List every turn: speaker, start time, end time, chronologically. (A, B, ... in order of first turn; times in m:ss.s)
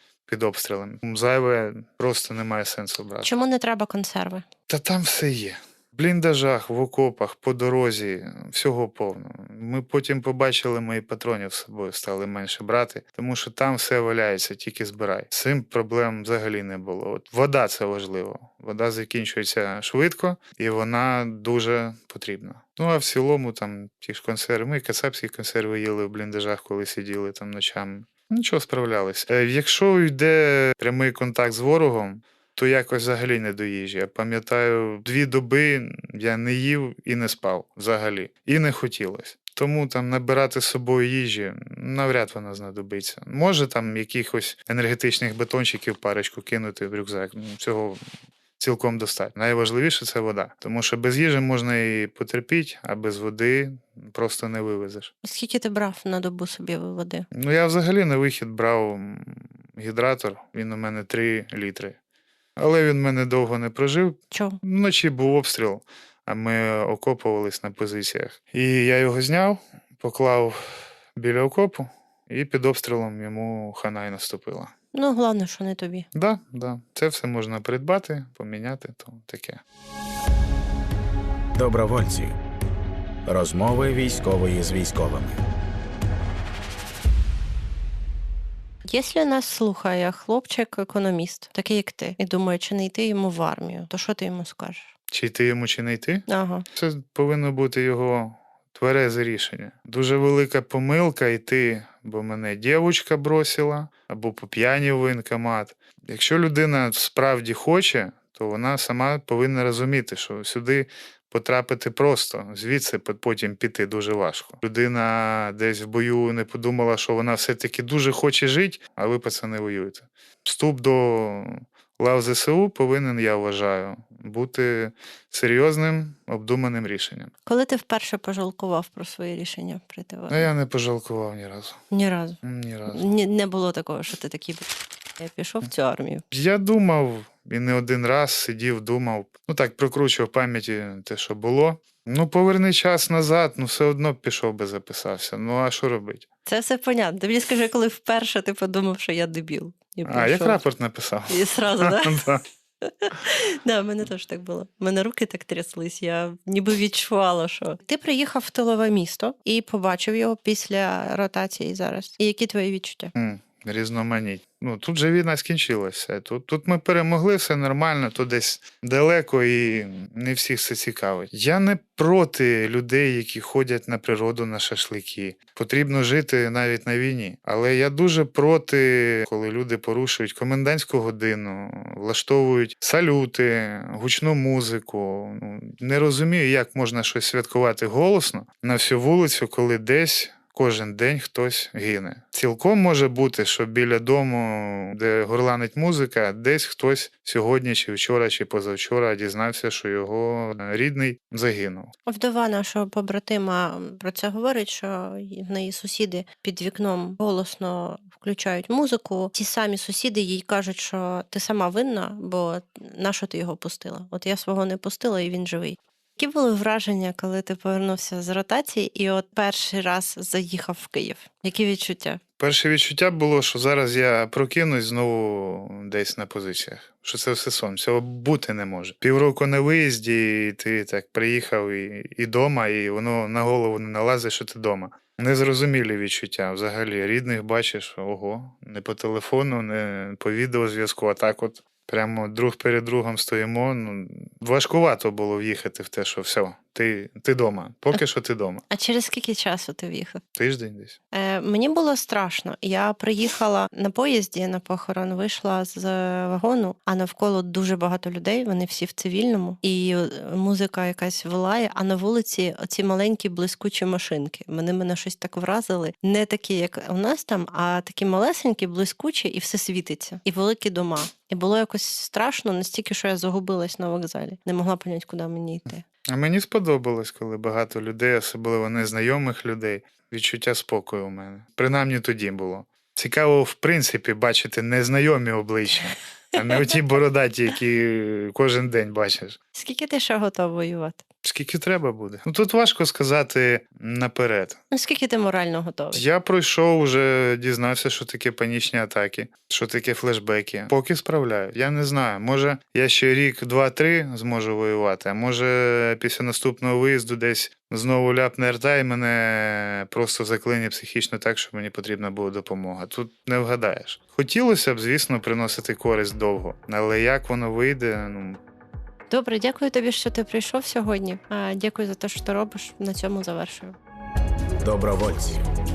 0:00.3-0:03.3 A
0:03.2-0:04.4 B
0:04.7-0:48.0 A
0:48.6-0:55.1 A
0:55.2-0:57.3 B
0:57.3-1:02.0 A
1:02.6-1:14.7 A
1:04.3-1:04.6 B
1:14.9-1:16.1 B
1:16.1-1:19.6 A
1:21.5-1:22.3 C
1:23.2-1:25.4 C
1:28.9-1:34.9 B
1:35.1-2:07.3 A
1:36.3-1:36.6 B
2:07.4-2:10.5 B
2:10.3-2:11.8 A
2:11.9-2:12.4 B
2:12.4-2:13.1 A
2:12.9-2:14.7 B
2:15.2-2:16.2 B
2:16.3-2:26.3 A
2:26.4-2:30.6 B
2:30.1-2:32.4 A
2:31.3-2:32.3 B
2:32.8-2:43.1 B
2:43.1-3:21.9 A
3:22.0-3:42.2 B
3:42.4-4:08.6 A
4:08.7-4:10.2 B
4:10.4-4:11.0 A
4:11.1-4:35.8 B
4:36.1-4:49.4 A
4:49.5-4:51.0 B
4:51.2-4:54.6 A
4:54.7-4:56.0 B
4:55.9-5:18.4 A
5:19.1-5:23.8 B
5:24.6-5:25.4 C